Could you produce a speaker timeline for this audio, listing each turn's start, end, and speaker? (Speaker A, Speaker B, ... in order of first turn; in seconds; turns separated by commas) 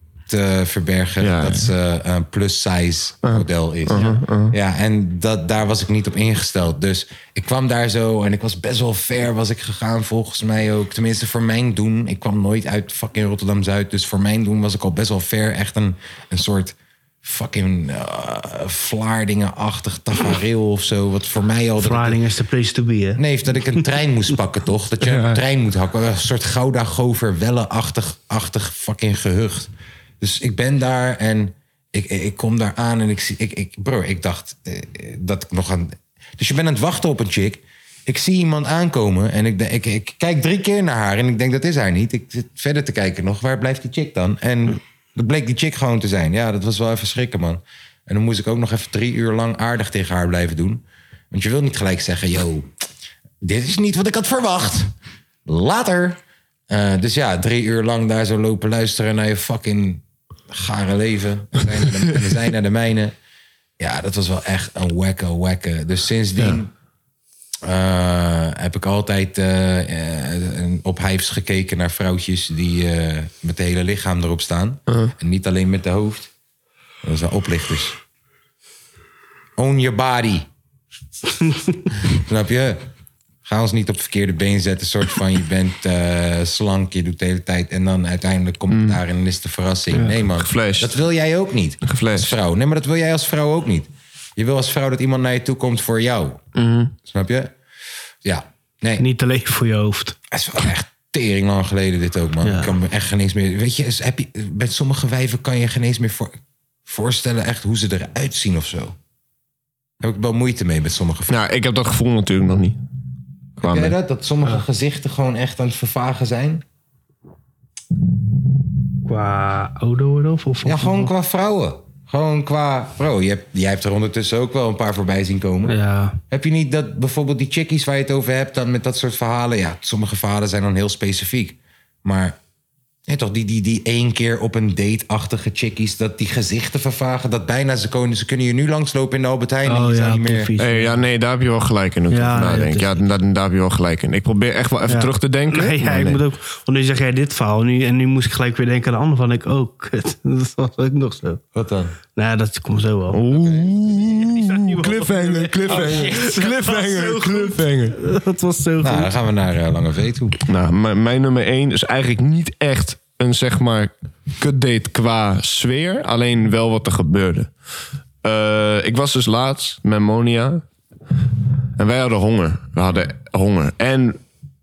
Speaker A: 0.3-22.2, Speaker B: 1.2-1.7, Speaker B: 3.2-4.5, Speaker C: 21.8-23.2, Speaker A: 23.2-52.7, Speaker A: 53.4-54.9, Speaker A: 55.5-63.1, Speaker A: 63.8-66.7, Speaker A: 67.6-76.3, Speaker A: 77.0-78.0, Speaker A: 79.6-80.5, Speaker C: 81.4-81.8, Speaker A: 82.0-82.8, Speaker A: 83.5-96.4, Speaker B: 88.7-89.0, Speaker B: 90.3-91.0, Speaker B: 91.8-92.3, Speaker B: 96.6-96.9, Speaker A: 97.0-97.5, Speaker A: 98.2-99.0, Speaker C: 99.0-100.2, Speaker A: 100.3-109.0, Speaker C: 102.4-102.8, Speaker A: 110.0-111.4, Speaker B: 111.3-112.8, Speaker B: 113.6-114.0, Speaker A: 113.6-116.6, Speaker C: 119.0-121.1, Speaker A: 120.6-125.8, Speaker C: 125.7-126.2, Speaker A: 126.3-132.4, Speaker A: 133.1-140.5, Speaker C: 139.7-141.0, Speaker B: 140.6-146.2, Speaker C: 142.1-143.0, Speaker C: 144.9-151.4, Speaker A: 151.5-152.0, Speaker C: 152.2-153.2, Speaker B: 153.1-158.0, Speaker A: 153.3-153.7, Speaker C: 153.8-159.1, Speaker A: 158.8-160.4, Speaker B: 160.4-167.5, Speaker B: 168.2-170.6, Speaker B: 171.8-174.2